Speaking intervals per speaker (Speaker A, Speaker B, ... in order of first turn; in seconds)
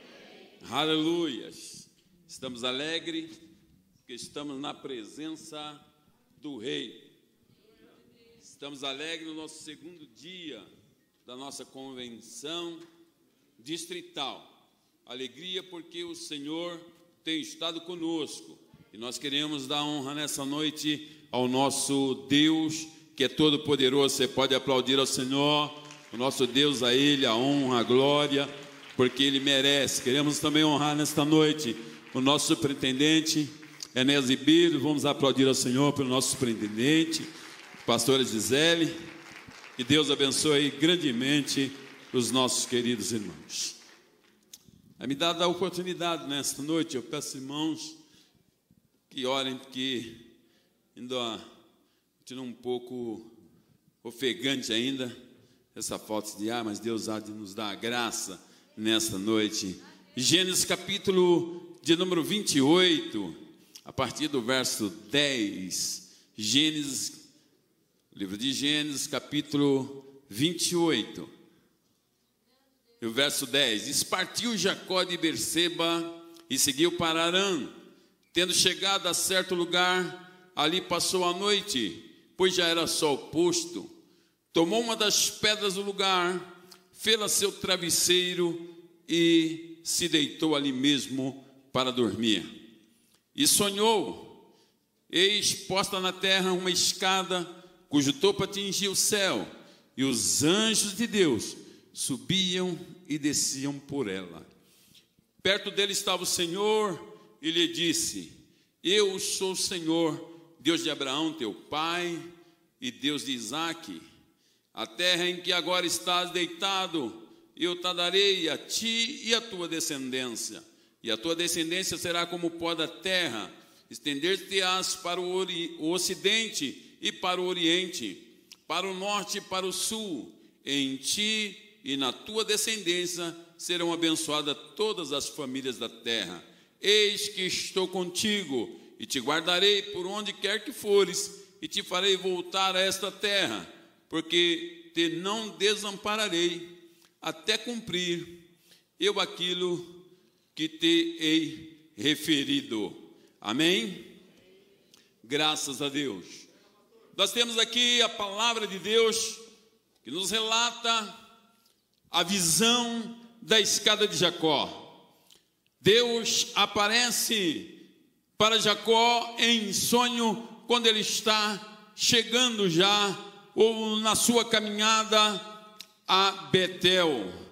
Speaker A: 0.6-3.3, 4.0-5.8, 6.4-7.1, 8.4-10.7, 11.2-12.8, 13.6-14.5, 15.1-37.3, 37.8-39.0, 39.8-43.8, 45.0-48.0, 49.1-50.2, 50.9-51.4, 52.2-53.3, 54.0-55.1, 55.7-67.2, 68.1-71.3, 73.0-77.7, 78.3-83.9, 84.5-92.5, 93.3-94.3, 95.1-104.5, 105.4-108.3, 108.8-112.2, 112.8-114.0, 114.8-148.4, 149.0-150.0, 150.6-154.1, 155.2-156.5, 157.2-159.4, 160.0-161.1, 162.1-164.9, 165.8-167.8, 168.4-175.4, 176.1-177.3